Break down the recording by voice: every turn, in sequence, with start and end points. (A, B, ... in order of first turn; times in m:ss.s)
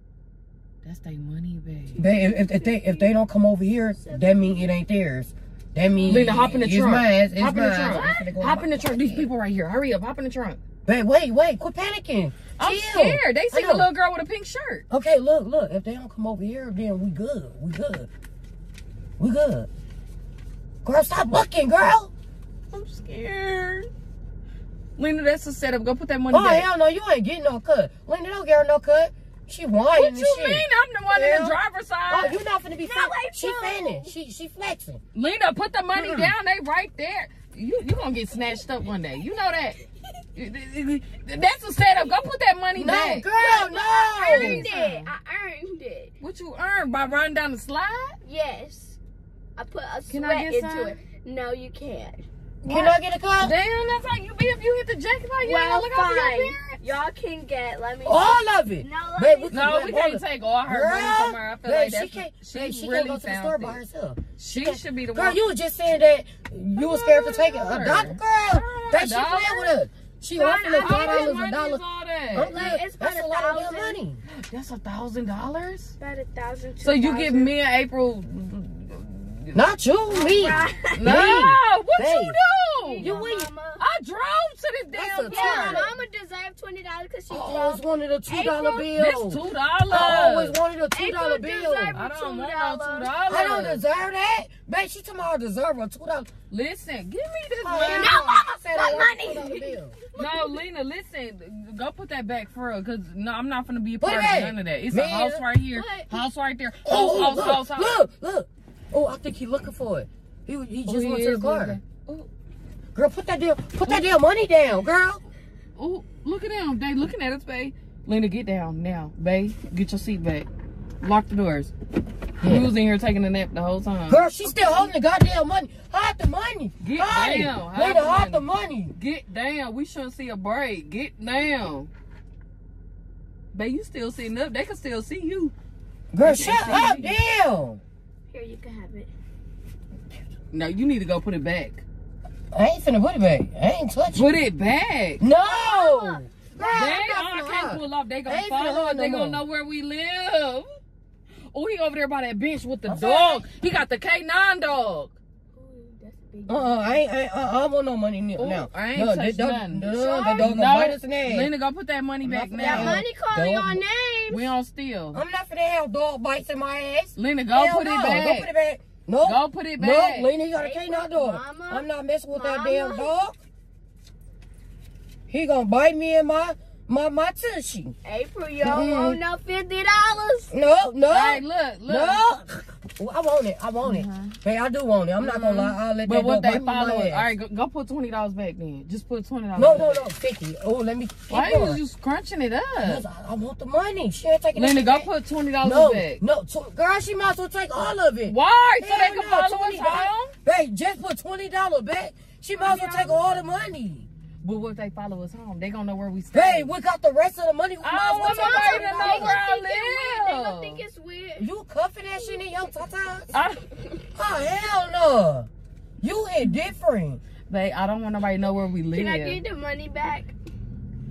0:00.8-0:02.1 A
0:02.0-0:09.3 B
0:02.1-0:03.1 C
0:04.0-0:04.7 C
0:06.1-0:10.6 A
0:07.9-0:08.3 C
0:10.8-0:13.9 B
0:12.6-0:14.8 A
0:14.9-0:18.1 B
0:19.2-0:19.7 B
0:20.8-0:22.1 B
0:22.7-0:23.9 A
0:25.0-0:26.7 A
0:26.3-0:31.6 B
0:29.9-0:32.4 A
0:32.1-0:35.0 B
0:32.8-0:34.1 C
0:35.2-0:39.8 A
0:36.0-0:36.3 B
0:40.4-0:43.3 A
0:42.8-0:44.6 B
0:43.3-0:46.1 C
0:44.3-0:45.1 A
0:46.2-0:48.2 A
0:48.2-0:49.0 C
0:49.6-0:52.3 C
0:50.1-0:51.0 A
0:52.6-0:53.6 B
0:52.6-0:56.8 A
0:55.4-0:59.9 C
0:58.0-1:14.2 B
0:59.5-1:03.8 A
1:04.3-1:05.4 A
1:06.8-1:09.8 A
1:10.3-1:11.4 C
1:10.8-1:12.8 A
1:12.6-1:14.0 C
1:14.3-1:16.0 A
1:16.0-1:17.5 C
1:16.8-1:19.6 A
1:19.5-1:22.4 B
1:20.1-1:21.0 C
1:21.0-1:23.2 A
1:22.8-1:23.8 C
1:23.0-1:23.5 B
1:23.8-1:25.8 A
1:24.9-1:25.9 B
1:25.3-1:28.9 C
1:27.3-1:32.0 B
1:29.0-1:30.6 A
1:30.9-1:33.2 C
1:31.9-1:33.8 A
1:33.3-1:36.3 B
1:36.5-1:38.2 A
1:37.6-1:40.0 B
1:37.9-1:40.6 C
1:40.2-1:48.0 A
1:44.0-1:45.4 B
1:45.7-1:46.1 C
1:46.8-1:51.8 B
1:50.9-1:52.3 A
1:52.9-1:55.2 B
1:55.8-2:00.5 A
2:01.0-2:01.7 A
2:02.4-2:02.7 B
2:02.4-2:04.3 A
2:04.1-2:08.9 B
2:06.8-2:11.9 A
2:13.5-2:15.5 A
2:16.1-2:17.8 B
2:16.2-2:17.2 A
2:18.3-2:19.1 C
2:20.5-2:21.8 A
2:22.5-2:24.3 B
2:24.1-2:25.2 A
2:25.2-2:29.4 B
2:25.4-2:27.0 C
2:26.8-2:30.7 A
2:31.5-2:35.2 A
2:32.9-2:33.4 B
2:35.5-2:37.0 C
2:36.5-2:41.5 B
2:38.4-2:43.0 A
2:42.2-2:43.8 B
2:42.6-2:44.5 C
2:44.3-2:45.2 A
2:45.1-2:53.4 B
2:47.2-2:48.5 A
2:49.2-2:50.3 A
2:50.6-2:53.2 C
2:55.3-2:57.9 B
2:58.0-3:00.5 C
2:58.6-2:59.2 B
3:00.5-3:07.3 B
3:01.1-3:02.2 A
3:03.8-3:04.4 A
3:05.2-3:10.1 A
3:09.6-3:11.8 B
3:11.3-3:13.0 A
3:12.8-3:15.1 B
3:14.5-3:16.2 A
3:15.6-3:24.1 B
3:18.3-3:20.3 A
3:22.6-3:23.3 C
3:24.4-3:26.7 A
3:26.3-3:29.4 B
3:27.8-3:30.8 A
3:28.2-3:31.5 C
3:31.4-3:33.4 B
3:33.3-3:33.6 A
3:34.1-3:35.5 B
3:36.0-3:37.2 B
3:37.5-3:39.4 A
3:38.9-3:40.3 C